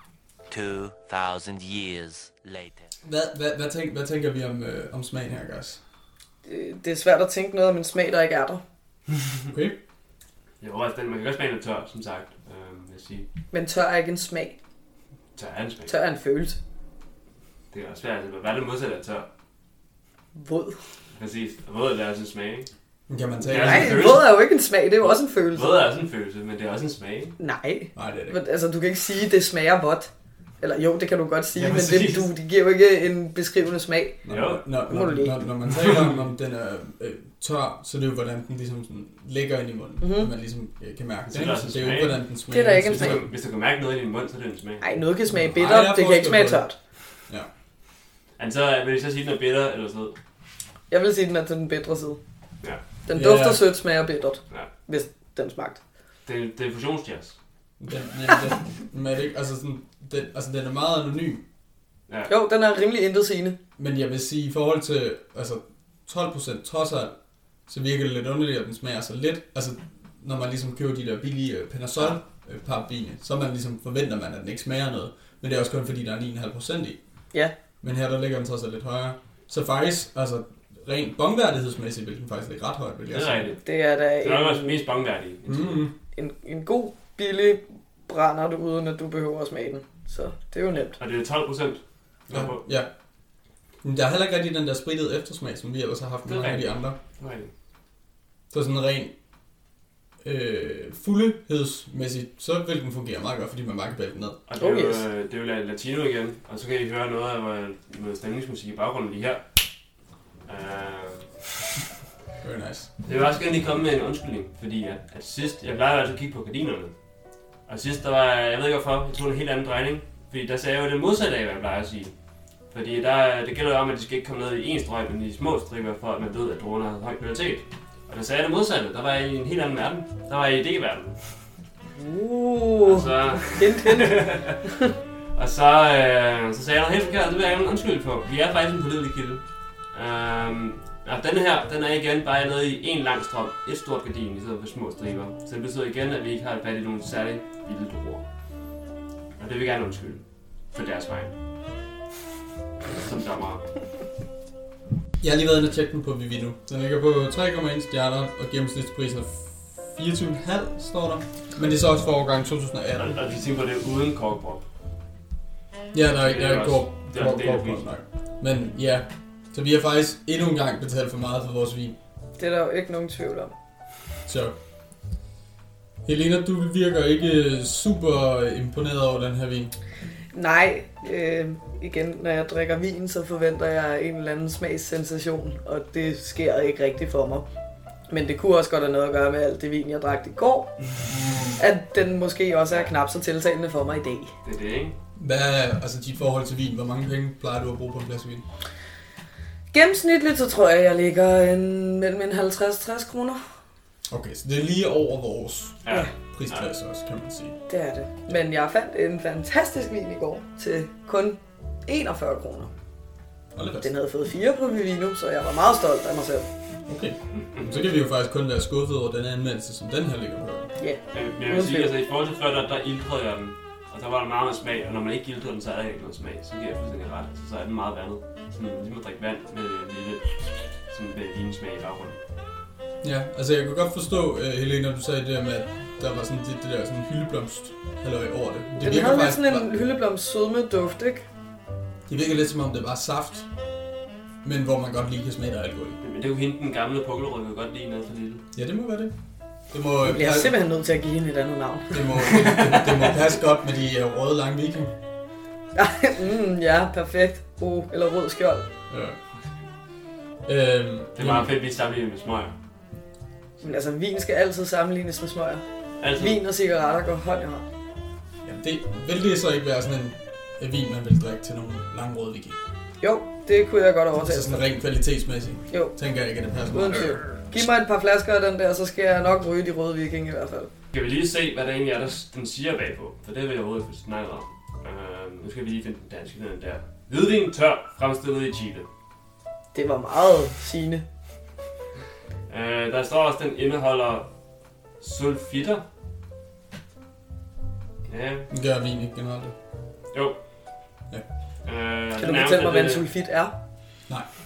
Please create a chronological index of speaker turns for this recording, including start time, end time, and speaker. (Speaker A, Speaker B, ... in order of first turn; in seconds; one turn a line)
Speaker A: 0.5-2.9
Speaker B: 3.0-5.8
Speaker C: 6.5-8.6
Speaker B: 9.5-9.8
Speaker D: 10.6-13.3
Speaker C: 13.5-14.6
Speaker D: 15.3-15.9
Speaker C: 15.9-16.6
Speaker D: 17.7-19.3
Speaker C: 20.4-20.8
Speaker D: 21.2-22.7
Speaker B: 23.1-24.1
Speaker D: 23.4-24.3
Speaker C: 23.5-25.8
Speaker D: 25.0-27.4
Speaker C: 27.4-30.1
Speaker B: 27.9-28.4
Speaker C: 30.6-34.2
Speaker D: 31.6-32.3
Speaker B: 34.2-43.2
Speaker D: 34.3-34.6
Speaker C: 34.9-35.4
Speaker C: 40.0-40.3
Speaker D: 41.3-42.2
Speaker C: 42.5-43.2
Speaker D: 42.8-44.9
Speaker C: 44.8-46.8
Speaker B: 45.3-46.7
Speaker D: 48.4-50.2
Speaker C: 50.9-52.2
Speaker C: 53.1-55.8
Speaker B: 53.1-53.6
Speaker D: 56.3-57.4
Speaker B: 57.8-61.4
Speaker C: 62.3-63.6
Speaker B: 63.8-67.2
Speaker B: 67.7-77.0
Speaker B: 77.8-83.5
Speaker D: 83.1-83.6
Speaker C: 83.6-84.8
Speaker D: 84.2-85.8
Speaker B: 85.5-85.9
Speaker C: 86.2-91.0
Speaker D: 90.9-92.6
Speaker B: 92.3-92.9
Speaker B: 93.8-97.0
Speaker D: 96.3-97.5
Speaker B: 98.5-99.1
Speaker B: 100.2-104.4
Speaker D: 104.5-109.4
Speaker C: 104.6-105.0
Speaker D: 110.5-111.5
Speaker B: 112.4-112.9
Speaker D: 113.0-116.9
Speaker D: 117.7-122.1
Speaker D: 122.7-131.2
Speaker C: 132.0-134.9
Speaker D: 132.8-134.6
Speaker D: 135.3-139.4
Speaker D: 139.9-148.2
Speaker D: 149.4-151.3
Speaker D: 152.9-153.6
Speaker B: 155.2-163.2
Speaker D: 163.0-164.7
Speaker B: 165.9-172.0
Speaker D: 166.2-167.8
Speaker C: 172.4-173.5
Speaker B: 174.3-174.6
Speaker B: 176.1-179.7
Speaker C: 180.3-187.5
Speaker C: 188.1-190.8
Speaker B: 191.1-191.6
Speaker C: 191.6-194.3
Speaker D: 194.4-195.0
Speaker B: 195.2-198.4
Speaker C: 199.7-203.4
Speaker B: 204.1-207.6
Speaker D: 205.8-206.7
Speaker C: 207.7-212.7
Speaker B: 213.6-213.9
Speaker C: 213.8-216.5
Speaker B: 216.9-220.7
Speaker C: 220.8-221.9
Speaker D: 221.1-232.2
Speaker B: 233.0-239.7
Speaker C: 238.8-241.2
Speaker B: 242.1-243.5
Speaker B: 244.4-246.0
Speaker D: 246.0-248.4
Speaker B: 248.6-249.1
Speaker B: 249.7-250.6
Speaker C: 250.0-252.8
Speaker B: 251.9-254.9
Speaker C: 255.8-258.7
Speaker B: 258.9-259.2
Speaker B: 260.5-261.5
Speaker D: 261.2-262.5
Speaker C: 263.6-265.6
Speaker D: 266.0-266.4
Speaker C: 266.1-267.6
Speaker B: 268.4-272.6
Speaker C: 273.0-274.6
Speaker B: 274.2-277.7
Speaker C: 276.7-280.7
Speaker D: 280.9-288.9
Speaker C: 289.7-291.1
Speaker D: 292.5-294.3
Speaker D: 295.0-295.8
Speaker D: 298.1-298.5
Speaker B: 298.5-299.5
Speaker D: 301.6-303.1
Speaker C: 302.2-303.5